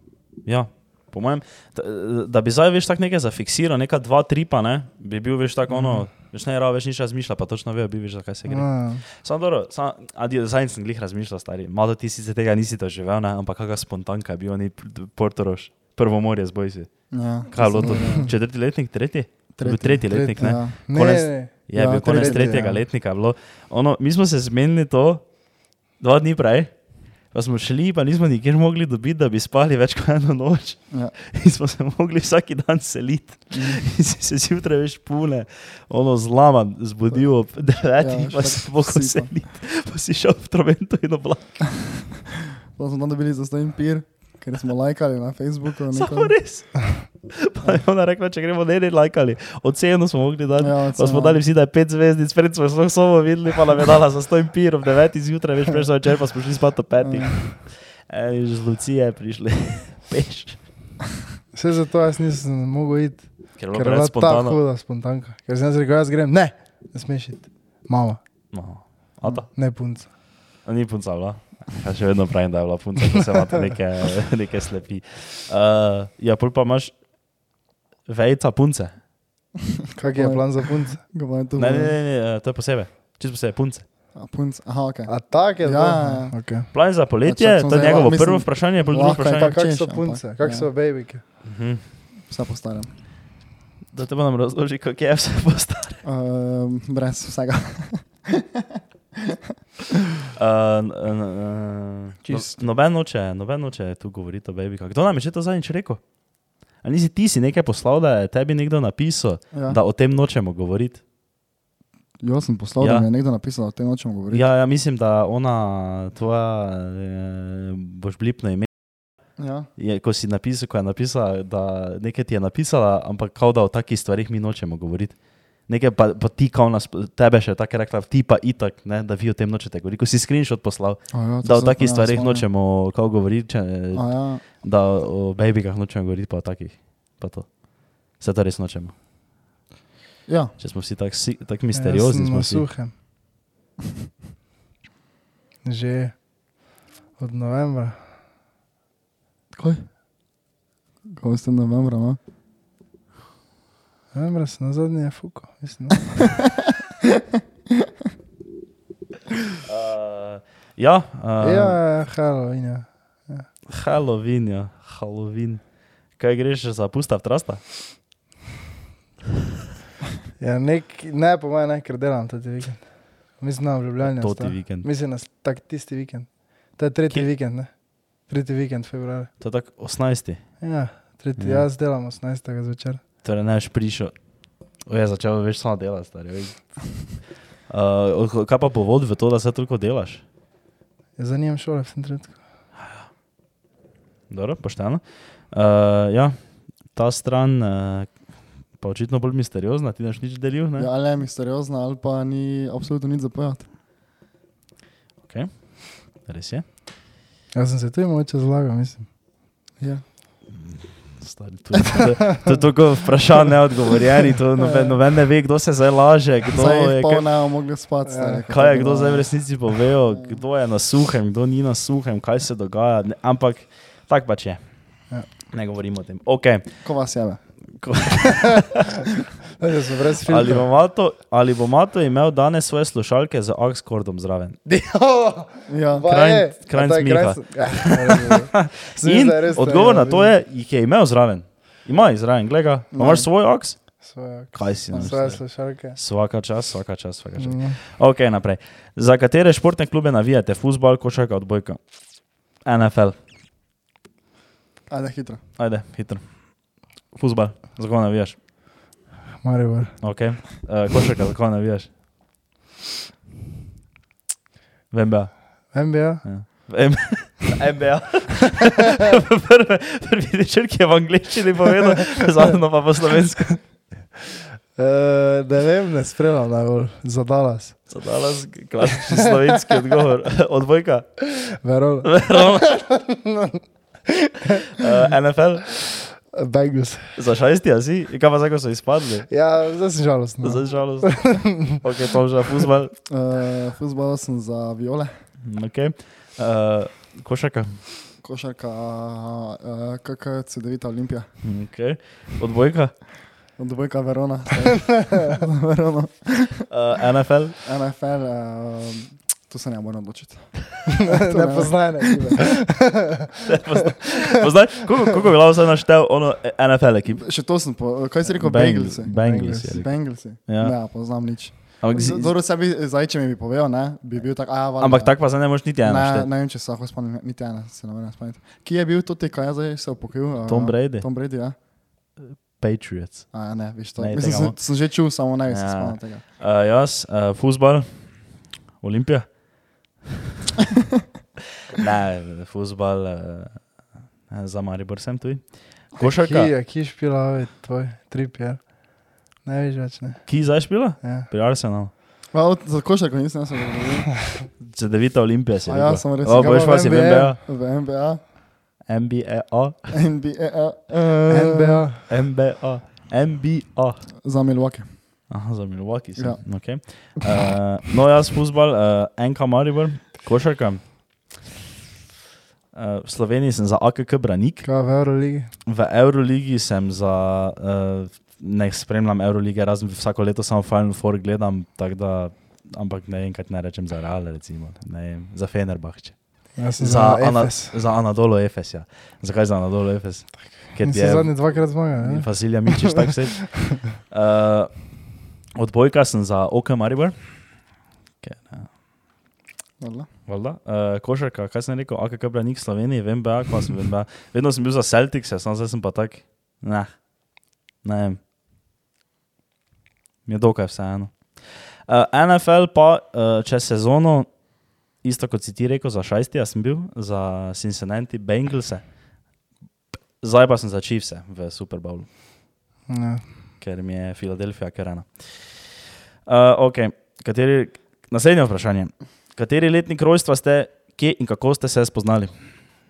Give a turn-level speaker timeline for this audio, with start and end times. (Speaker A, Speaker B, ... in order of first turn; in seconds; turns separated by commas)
Speaker A: 0.5-16.9, Speaker B: 5.7-6.0, Speaker B: 8.5-9.0, Speaker C: 17.1-18.4, Speaker A: 17.5-25.3, Speaker C: 19.6-20.8, Speaker B: 20.1-22.8, Speaker C: 21.8-22.8, Speaker A: 26.0-41.7, Speaker C: 38.0-39.3, Speaker C: 42.7-46.4, Speaker A: 45.9-60.6, Speaker C: 50.6-51.4, Speaker C: 57.0-57.4, Speaker B: 61.5-68.2, Speaker A: 63.6-64.6, Speaker A: 68.5-69.5, Speaker B: 69.5-70.1, Speaker A: 70.6-77.0, Speaker A: 78.1-79.0, Speaker C: 79.9-82.0, Speaker B: 80.0-81.0, Speaker A: 81.6-83.8, Speaker C: 84.2-86.4, Speaker B: 85.1-86.7, Speaker A: 86.7-89.6, Speaker C: 87.2-90.7, Speaker B: 89.2-91.2, Speaker A: 91.4-91.8, Speaker C: 92.3-92.9, Speaker A: 93.9-96.0, Speaker C: 96.0-99.4, Speaker A: 100.3-106.0, Speaker C: 102.2-102.6, Speaker A: 106.8-111.0, Speaker C: 109.5-109.8, Speaker C: 112.2-114.4, Speaker A: 112.8-113.1, Speaker A: 114.3-118.7, Speaker C: 119.4-119.7, Speaker A: 119.8-139.0, Speaker C: 131.1-132.5, Speaker C: 133.9-134.4, Speaker C: 140.3-140.6, Speaker A: 140.6-142.7, Speaker B: 141.7-142.9, Speaker B: 145.6-146.2, Speaker B: 147.2-148.0, Speaker C: 149.6-149.8, Speaker C: 151.1-152.2, Speaker B: 154.1-156.3, Speaker C: 156.6-157.2, Speaker A: 159.7-161.8, Speaker B: 161.4-163.5, Speaker A: 163.7-165.6, Speaker A: 166.2-167.6, Speaker B: 170.4-179.3, Speaker A: 174.0-174.9, Speaker A: 179.4-180.4, Speaker B: 180.6-183.0, Speaker A: 181.4-181.7, Speaker A: 183.2-184.2, Speaker A: 184.8-187.1, Speaker A: 187.7-190.2, Speaker B: 191.2-192.4, Speaker A: 194.3-196.4, Speaker A: 196.9-198.2, Speaker A: 198.7-200.9, Speaker C: 200.8-203.7, Speaker A: 205.2-206.7, Speaker B: 207.5-209.1, Speaker C: 209.8-210.0, Speaker A: 210.5-217.2, Speaker C: 216.5-219.3, Speaker B: 218.1-218.4, Speaker A: 218.5-224.6, Speaker A: 225.5-226.7, Speaker C: 226.8-227.4, Speaker A: 227.8-228.8, Speaker B: 229.6-230.7, Speaker A: 230.2-234.6, Speaker B: 234.7-240.4, Speaker C: 235.7-236.1, Speaker A: 236.1-244.0, Speaker C: 242.9-243.3, Speaker B: 244.0-246.0, Speaker A: 244.5-251.8, Speaker B: 247.4-247.8, Speaker A: 252.6-253.2, Speaker C: 254.9-255.4, Speaker A: 255.6-256.6, Speaker A: 257.1-258.4, Speaker B: 259.4-260.0, Speaker A: 260.0-261.9, Speaker A: 264.9-273.6, Speaker B: 265.7-266.7, Speaker B: 274.8-277.9, Speaker A: 277.9-281.2, Speaker B: 278.9-279.8, Speaker B: 281.3-284.9, Speaker A: 282.0-282.8, Speaker A: 284.7-285.7, Speaker B: 285.7-287.2, Speaker A: 287.2-289.3, Speaker B: 289.3-291.8, Speaker A: 290.4-292.9, Speaker C: 293.1-295.1, Speaker A: 295.4-297.8, Speaker C: 298.2-301.3, Speaker A: 301.4-302.9, Speaker C: 303.6-306.7, Speaker A: 306.7-307.6, Speaker C: 307.6-312.4, Speaker B: 310.9-313.6, Speaker A: 313.5-317.2, Speaker C: 317.2-325.2, Speaker A: 318.3-320.8, Speaker B: 319.2-319.8, Speaker A: 321.8-322.3, Speaker A: 324.8-326.3, Speaker C: 325.8-331.6, Speaker A: 330.5-331.1, Speaker A: 332.2-333.3, Speaker C: 333.3-336.2, Speaker A: 334.0-334.6, Speaker A: 335.5-338.3, Speaker A: 338.8-339.3, Speaker A: 341.7-343.7, Speaker A: 344.3-346.5, Speaker B: 346.0-350.3, Speaker A: 350.3-351.9, Speaker B: 351.0-351.3, Speaker C: 352.3-354.2, Speaker A: 354.6-357.4, Speaker C: 355.7-356.8, Speaker B: 356.3-357.4, Speaker C: 357.4-358.2, Speaker A: 358.9-359.8, Speaker C: 359.9-361.9, Speaker B: 361.3-362.0, Speaker A: 362.1-364.1, Speaker C: 364.2-364.9, Speaker A: 365.3-370.9, Speaker C: 366.2-366.4, Speaker A: 372.7-374.7, Speaker B: 374.6-375.5, Speaker A: 375.7-386.2, Speaker B: 386.6-387.8, Speaker A: 386.8-394.8, Speaker B: 390.8-393.6, Speaker A: 395.6-397.2, Speaker A: 398.2-398.7, Speaker C: 399.8-400.1, Speaker A: 400.3-406.9, Speaker A: 407.8-408.2, Speaker A: 410.3-414.3, Speaker A: 415.0-418.9, Speaker A: 420.2-422.1, Speaker B: 422.9-423.2, Speaker A: 423.6-432.3